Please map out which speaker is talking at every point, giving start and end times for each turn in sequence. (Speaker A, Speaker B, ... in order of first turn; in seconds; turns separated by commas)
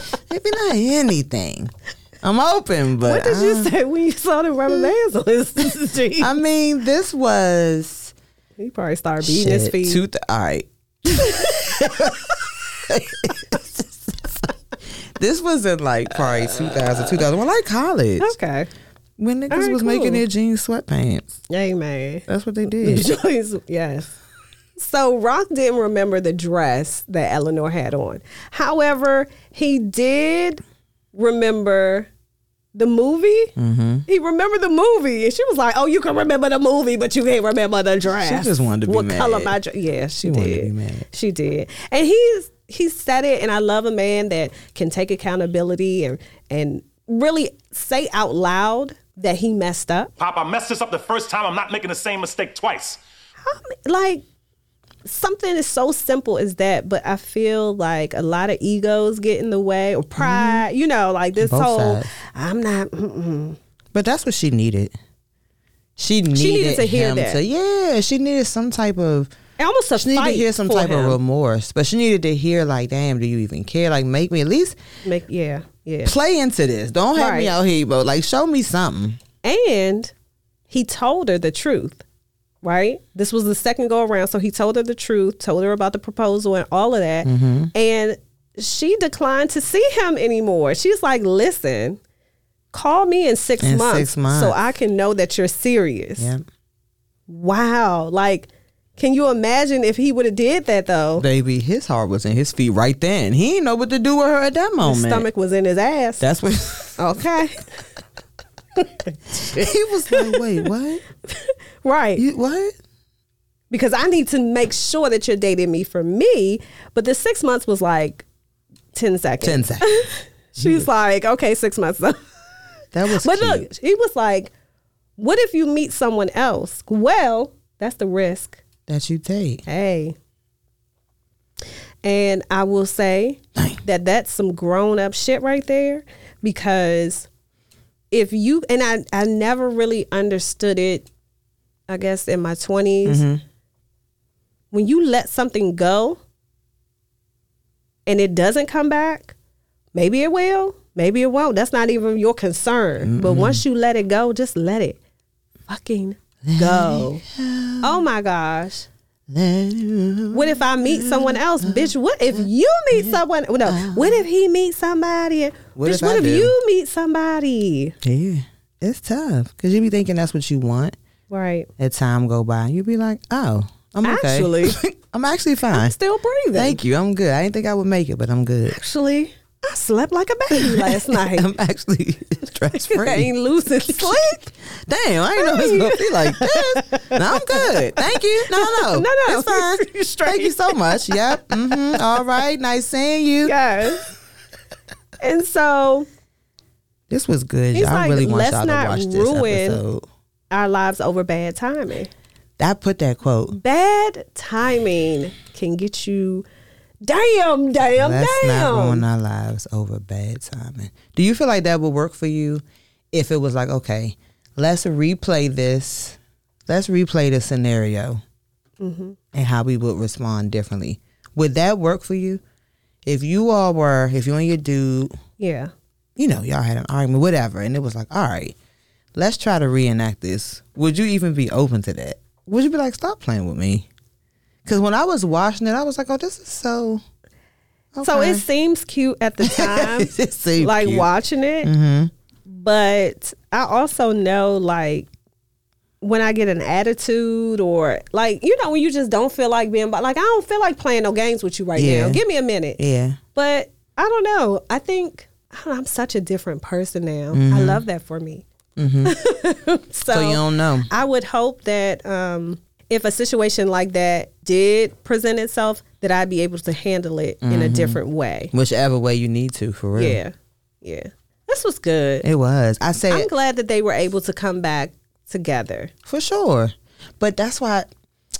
Speaker A: 0.3-3.7, Speaker B: 3.0-6.3, Speaker A: 6.2-8.1, Speaker B: 8.6-10.1, Speaker A: 9.2-12.3, Speaker B: 11.2-12.4, Speaker A: 12.9-13.8, Speaker A: 15.2-18.3, Speaker B: 16.5-17.1, Speaker B: 18.2-18.7, Speaker A: 19.2-21.4, Speaker B: 19.5-20.2, Speaker B: 21.5-24.1, Speaker A: 22.3-23.1, Speaker B: 24.8-30.6, Speaker B: 31.1-32.1, Speaker B: 32.7-33.5, Speaker A: 33.6-34.0, Speaker B: 34.1-50.1, Speaker A: 38.1-39.6, Speaker A: 40.2-41.1, Speaker C: 50.2-53.0, Speaker B: 53.4-54.2, Speaker B: 55.0-63.6, Speaker A: 60.2-60.6, Speaker A: 61.4-62.1, Speaker A: 63.9-64.9, Speaker A: 66.0-69.3, Speaker B: 66.3-67.4, Speaker B: 69.6-71.2, Speaker A: 69.9-74.8, Speaker B: 75.0-76.1, Speaker A: 76.0-79.2, Speaker B: 77.1-77.5, Speaker B: 79.4-80.1, Speaker B: 80.7-82.0, Speaker B: 82.6-92.0, Speaker A: 87.2-87.7, Speaker B: 92.7-96.3, Speaker A: 93.6-94.6, Speaker A: 96.2-96.4, Speaker B: 97.3-101.2, Speaker A: 101.2-105.2, Speaker B: 104.8-106.2, Speaker A: 106.2-107.0, Speaker B: 107.0-107.6, Speaker B: 108.8-110.4, Speaker A: 109.4-111.0, Speaker B: 111.3-112.2, Speaker A: 112.2-112.8, Speaker B: 113.7-118.2, Speaker B: 118.9-122.2, Speaker A: 119.4-120.0, Speaker A: 120.6-120.9, Speaker A: 122.9-123.7, Speaker B: 123.1-124.5, Speaker B: 125.2-128.6, Speaker A: 128.9-129.6, Speaker B: 129.7-130.2, Speaker B: 132.0-137.3, Speaker A: 133.6-133.8, Speaker B: 138.1-141.1, Speaker B: 141.9-143.2, Speaker A: 143.0-143.4, Speaker B: 144.7-146.2, Speaker B: 148.1-149.3, Speaker B: 149.9-155.0, Speaker A: 153.0-153.6, Speaker B: 155.7-157.2, Speaker A: 156.4-158.0, Speaker B: 157.8-158.9, Speaker A: 159.3-161.9, Speaker B: 160.3-167.9, Speaker A: 162.9-164.2, Speaker A: 165.7-166.5, Speaker A: 168.0-170.9, Speaker B: 171.3-171.7, Speaker A: 171.8-175.9, Speaker B: 174.0-174.8, Speaker B: 175.7-176.8, Speaker A: 176.5-178.8, Speaker B: 178.7-181.5, Speaker A: 180.5-183.3, Speaker B: 182.7-184.5, Speaker A: 183.9-193.6, Speaker B: 185.4-191.3, Speaker B: 193.4-194.1, Speaker B: 195.2-196.1, Speaker A: 197.1-200.1, Speaker B: 197.7-199.8, Speaker B: 200.5-202.1, Speaker A: 202.6-203.6, Speaker B: 203.5-206.4, Speaker B: 207.0-209.0, Speaker A: 207.9-218.2, Speaker B: 218.8-219.2, Speaker A: 219.3-222.4, Speaker A: 223.0-225.1, Speaker B: 225.4-225.7, Speaker A: 226.2-228.5, Speaker A: 229.2-233.9, Speaker A: 234.6-237.0, Speaker A: 237.9-238.4, Speaker B: 238.0-241.7, Speaker A: 239.4-241.1, Speaker A: 241.6-242.1, Speaker B: 242.5-245.1, Speaker B: 246.0-252.8, Speaker A: 251.7-252.2, Speaker A: 252.8-253.2, Speaker B: 253.3-258.4, Speaker A: 257.3-257.8, Speaker A: 258.8-259.1, Speaker B: 259.0-268.5, Speaker A: 260.1-260.9, Speaker A: 267.4-268.0, Speaker A: 268.5-270.2, Speaker B: 269.9-272.2, Speaker A: 272.2-273.3, Speaker B: 273.1-275.9, Speaker A: 276.1-277.9